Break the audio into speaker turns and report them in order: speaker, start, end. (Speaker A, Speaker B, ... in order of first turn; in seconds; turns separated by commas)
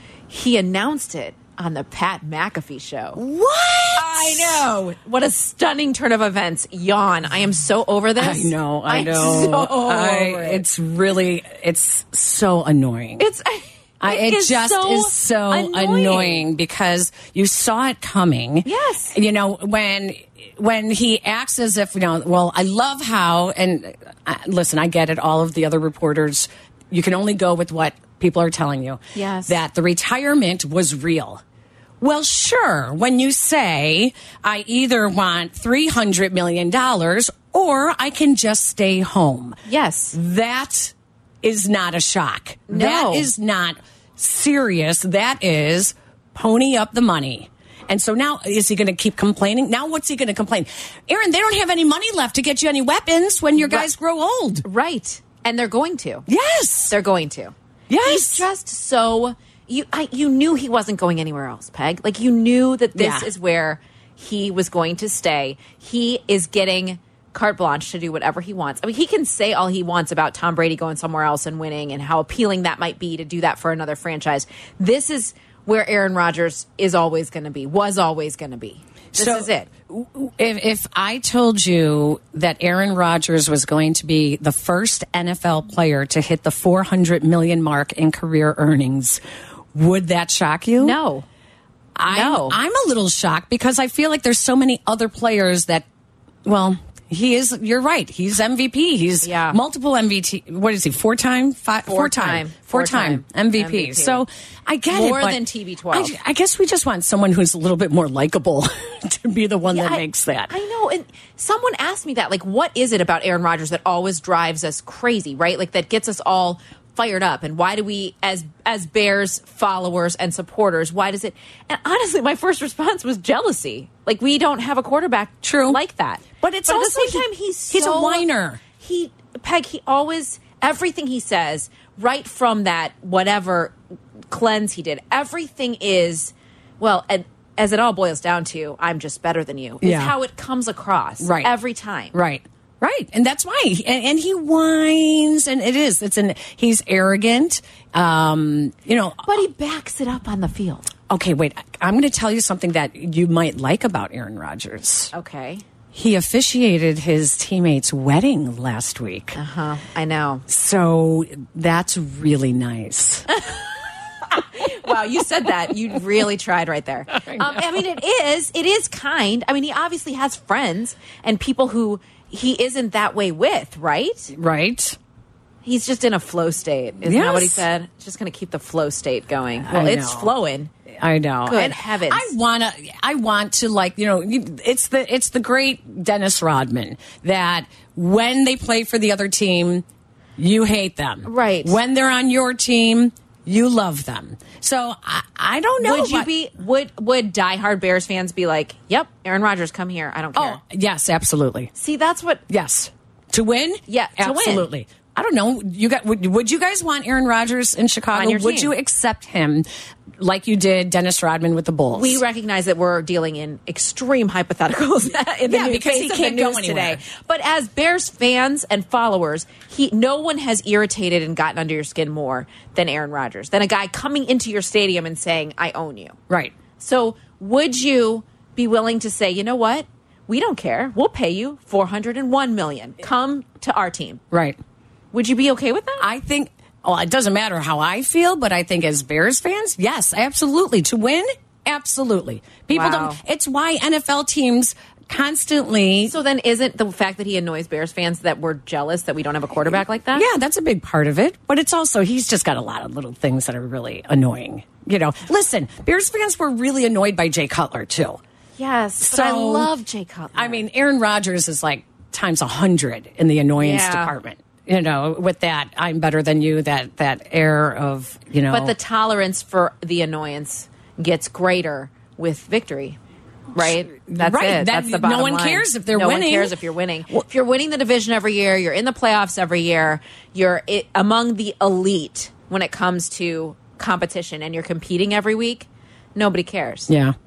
Speaker A: 0.3-3.2, Speaker B: 3.1-4.7, Speaker A: 4.0-10.6, Speaker B: 8.2-13.2, Speaker A: 13.2-16.4, Speaker B: 14.0-31.4, Speaker A: 18.6-19.1, Speaker A: 29.1-29.6, Speaker B: 32.0-39.6, Speaker A: 39.6-40.1, Speaker B: 40.1-54.6, Speaker A: 42.7-43.3, Speaker A: 53.6-53.9, Speaker A: 54.6-56.2, Speaker B: 56.3-56.9, Speaker A: 56.9-79.7, Speaker B: 57.9-58.5, Speaker B: 62.9-63.3, Speaker B: 79.2-89.2, Speaker B: 89.7-91.0, Speaker A: 90.8-91.2, Speaker B: 92.0-95.8, Speaker A: 92.1-92.6, Speaker B: 96.4-110.5, Speaker A: 99.2-99.6, Speaker A: 101.8-104.2, Speaker A: 104.9-106.2, Speaker A: 109.7-128.2, Speaker B: 125.4-125.8, Speaker B: 126.4-128.6, Speaker A: 128.8-133.8, Speaker A: 134.3-142.1, Speaker B: 139.8-140.1, Speaker B: 141.2-141.5, Speaker B: 142.1-149.3, Speaker A: 149.2-150.9, Speaker B: 151.1-155.1, Speaker A: 155.1-155.6, Speaker B: 155.9-159.4, Speaker A: 159.3-160.4, Speaker B: 160.5-163.3, Speaker A: 164.3-174.3, Speaker B: 167.1-167.6, Speaker B: 174.3-175.0, Speaker A: 175.6-180.7, Speaker B: 177.0-177.7, Speaker B: 179.6-180.3, Speaker B: 181.0-189.8, Speaker A: 181.4-182.3, Speaker B: 190.4-196.3, Speaker A: 191.2-191.8, Speaker A: 195.8-200.6, Speaker B: 200.3-201.7, Speaker A: 201.7-202.4, Speaker B: 202.5-209.7, Speaker A: 203.9-204.7, Speaker A: 208.1-208.7, Speaker B: 210.2-212.2, Speaker A: 211.9-226.2, Speaker B: 215.5-217.0, Speaker B: 226.3-226.5, Speaker A: 226.8-234.2, Speaker B: 234.3-234.6, Speaker A: 235.1-236.1, Speaker B: 236.0-246.1, Speaker A: 242.7-243.2, Speaker A: 246.1-250.3, Speaker B: 250.1-258.2, Speaker A: 258.6-260.6, Speaker B: 259.0-259.7, Speaker B: 260.3-268.7, Speaker A: 263.6-264.1, Speaker A: 268.5-273.0, Speaker A: 273.6-286.9, Speaker B: 273.6-276.5, Speaker B: 286.9-287.1